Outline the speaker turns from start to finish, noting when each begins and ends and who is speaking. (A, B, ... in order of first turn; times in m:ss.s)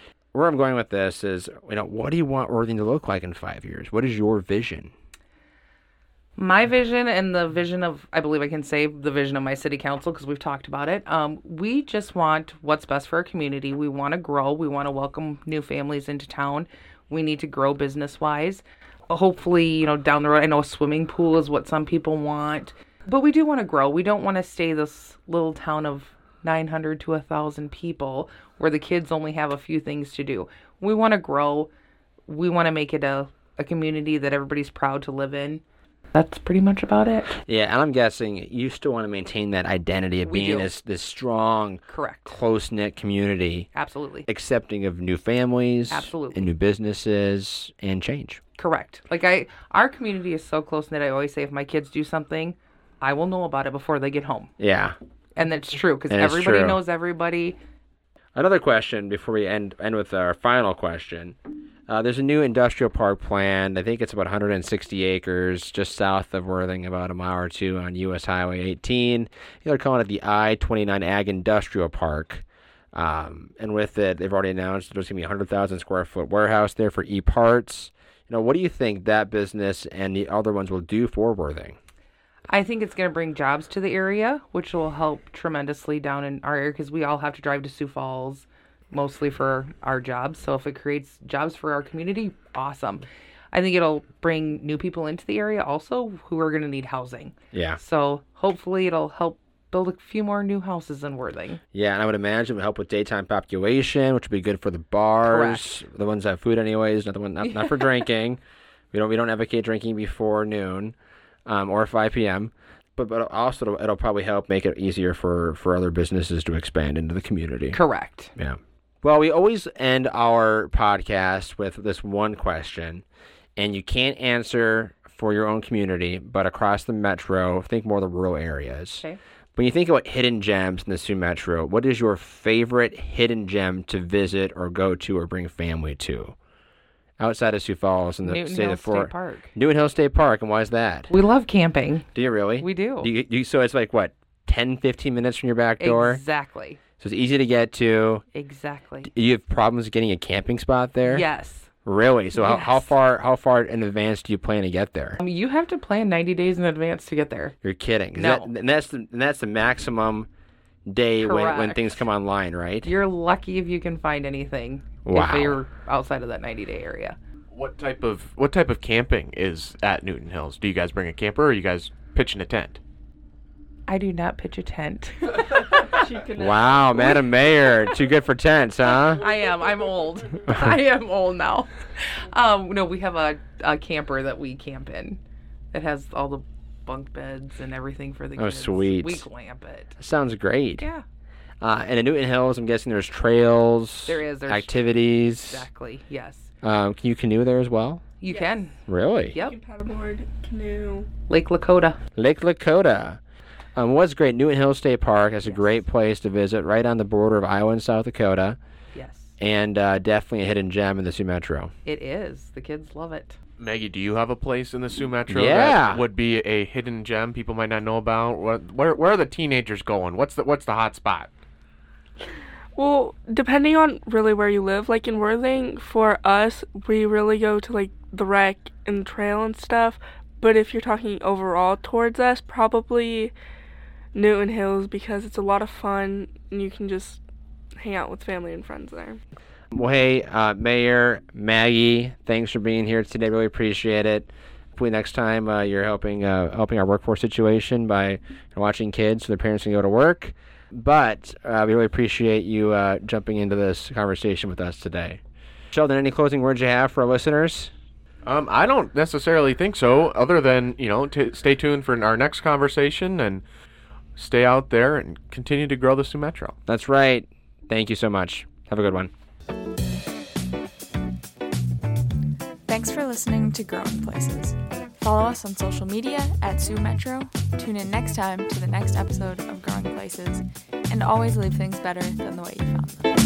0:00.3-0:04.9 A
0:06.4-0:31.7 B
0:32.3-0:35.6 B
0:36.1-0:37.4 B
0:37.4-0:43.7 A
0:40.2-0:40.7 B
0:41.9-0:42.4 B
0:43.7-0:44.3 B
0:44.3-0:48.4 A
0:45.9-0:46.5 B
0:48.6-0:54.5 B
0:54.6-0:55.0 A
0:55.4-0:57.6 B
0:56.1-0:56.8 A
0:58.3-1:01.4 A
1:01.9-1:21.8 A
1:22.5-1:41.6 B
1:37.5-1:37.8 A
1:41.7-1:48.4 A
1:45.3-1:45.7 B
1:47.4-1:48.0 B
1:48.9-1:50.9 A
1:51.4-1:57.8 A
1:57.7-1:58.3 B
1:58.4-2:03.0 A
2:03.6-2:09.0 A
2:09.6-2:16.3 A
2:17.2-2:21.1 A
2:18.2-2:19.5 B
2:21.1-2:22.1 B
2:22.1-2:26.2 A
2:22.6-2:23.1 B
2:25.8-2:26.8 B
2:27.0-2:28.2 A
2:28.3-2:29.1 B
2:29.0-2:31.3 A
2:31.0-2:31.7 B
2:31.8-2:35.2 A
2:32.3-2:32.9 B
2:35.2-2:37.6 B
2:37.6-2:40.3 A
2:38.1-2:38.5 B
2:40.8-2:42.9 A
2:41.2-2:42.0 B
2:42.8-2:47.2 B
2:45.0-2:45.6 A
2:47.5-2:52.8 C
2:53.9-2:56.0 B
2:56.0-2:56.5 D
2:56.3-2:59.2 A
2:58.9-3:05.2 B
3:05.7-3:09.9 B
3:08.4-3:09.3 A
3:10.0-3:10.8 A
3:10.8-3:11.0 B
3:11.6-3:15.7 A
3:14.0-3:16.5 B
3:16.6-3:18.0 A
3:18.2-3:18.8 B
3:18.9-3:19.4 A
3:19.4-3:21.1 D
3:21.3-3:22.0 B
3:22.2-3:23.2 A
3:23.8-3:28.6 A
3:25.4-3:25.8 B
3:28.9-3:29.3 B
3:29.4-3:31.7 A
3:31.8-3:33.4 B
3:33.6-3:41.3 C
3:35.3-3:36.0 A
3:42.8-3:53.3 D
3:54.1-3:57.2 D
3:57.8-3:59.2 D
3:59.7-4:15.2 A
4:15.7-4:17.7 A
4:18.2-4:23.4 C
4:24.2-4:26.6 C
4:26.7-4:29.1 A
4:32.7-4:43.0 E